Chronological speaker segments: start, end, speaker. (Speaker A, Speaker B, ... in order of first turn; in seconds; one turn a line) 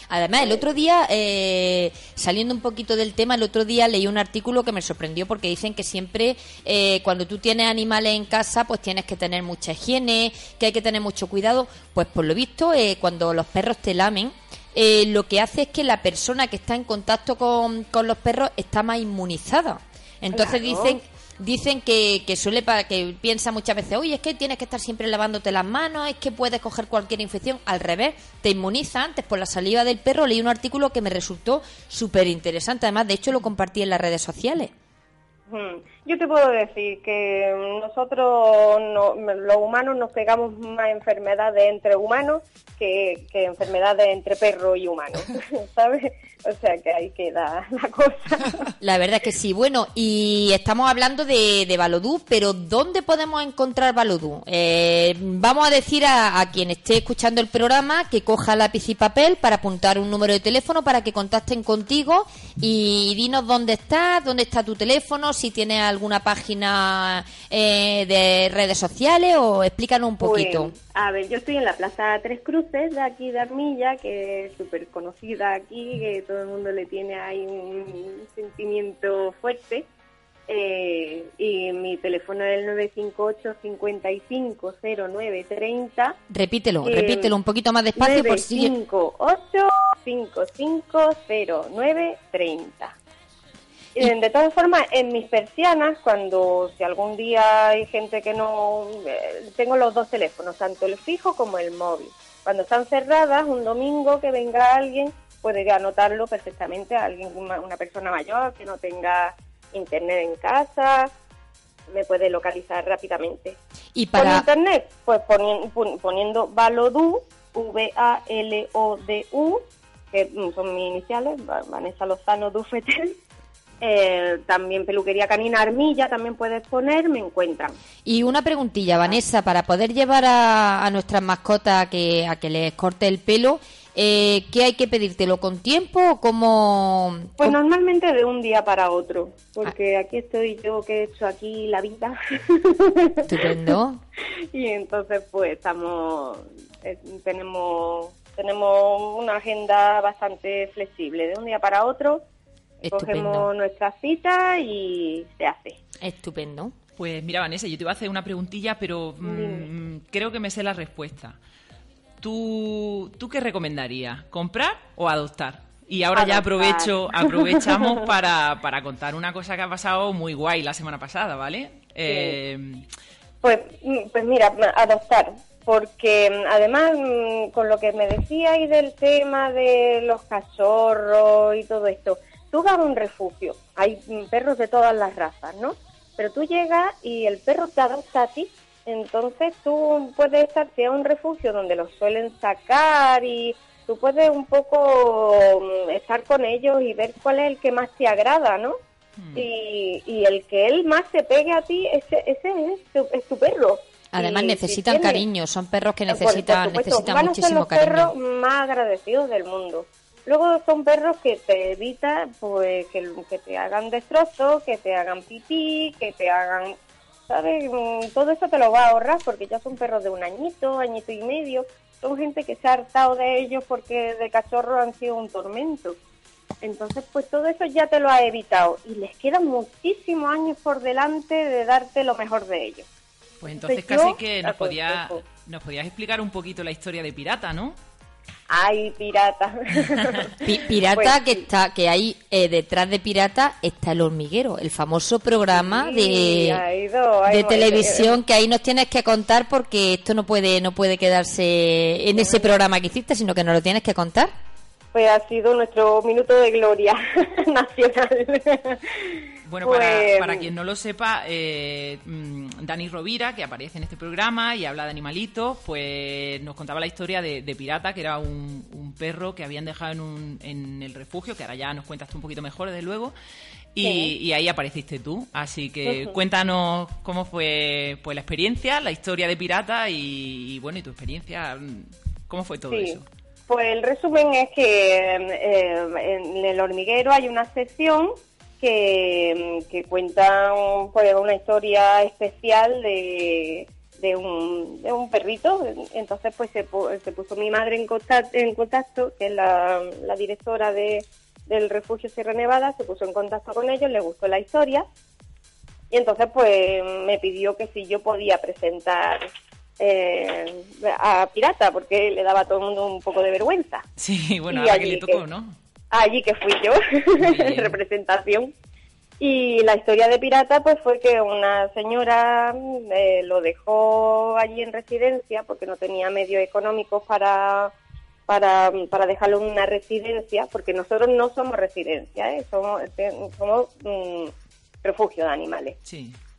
Speaker A: 0.1-34.7
Speaker B: 0.4-0.6
Speaker B: 20.3-21.0
Speaker B: 35.5-48.7
Speaker A: 48.8-70.7
Speaker B: 70.2-79.9
Speaker B: 80.5-86.2
Speaker A: 86.3-88.7
Speaker B: 86.8-87.3
Speaker B: 88.0-93.0
Speaker B: 94.0-111.1
Speaker B: 111.9-113.6
Speaker A: 113.9-114.4
Speaker B: 114.1-123.2
Speaker B: 123.8-127.8
Speaker A: 128.0-137.6
Speaker B: 137.4-143.7
Speaker A: 143.2-144.0
Speaker B: 144.5-152.2
Speaker A: 152.8-153.5
Speaker B: 152.8-155.8
Speaker A: 156.0-156.7
Speaker C: 157.0-161.4
Speaker B: 159.2-159.7
Speaker C: 162.2-172.8
Speaker B: 166.1-168.0
Speaker B: 172.0-172.4
Speaker B: 173.4-198.8
Speaker C: 199.2-199.4
Speaker B: 199.3-205.2
Speaker A: 204.1-208.1
Speaker B: 206.1-216.8
Speaker B: 217.3-226.0
Speaker B: 226.6-232.9
Speaker C: 233.4-237.8
Speaker B: 233.6-235.2
Speaker B: 238.5-241.4
Speaker A: 240.4-246.6
Speaker B: 245.5-248.2
Speaker A: 247.3-254.3
Speaker B: 252.1-252.6
Speaker B: 254.9-260.5
Speaker C: 259.4-273.1
Speaker C: 273.7-283.1
Speaker B: 273.8-274.1
Speaker B: 275.9-276.1
Speaker B: 282.7-304.9
Speaker B: 305.9-309.2
Speaker B: 309.8-313.9
Speaker C: 314.0-315.6
Speaker B: 314.5-315.2
Speaker B: 315.9-318.5
Speaker C: 317.2-317.8
Speaker B: 319.2-327.7
Speaker B: 328.3-335.8
Speaker C: 335.8-336.2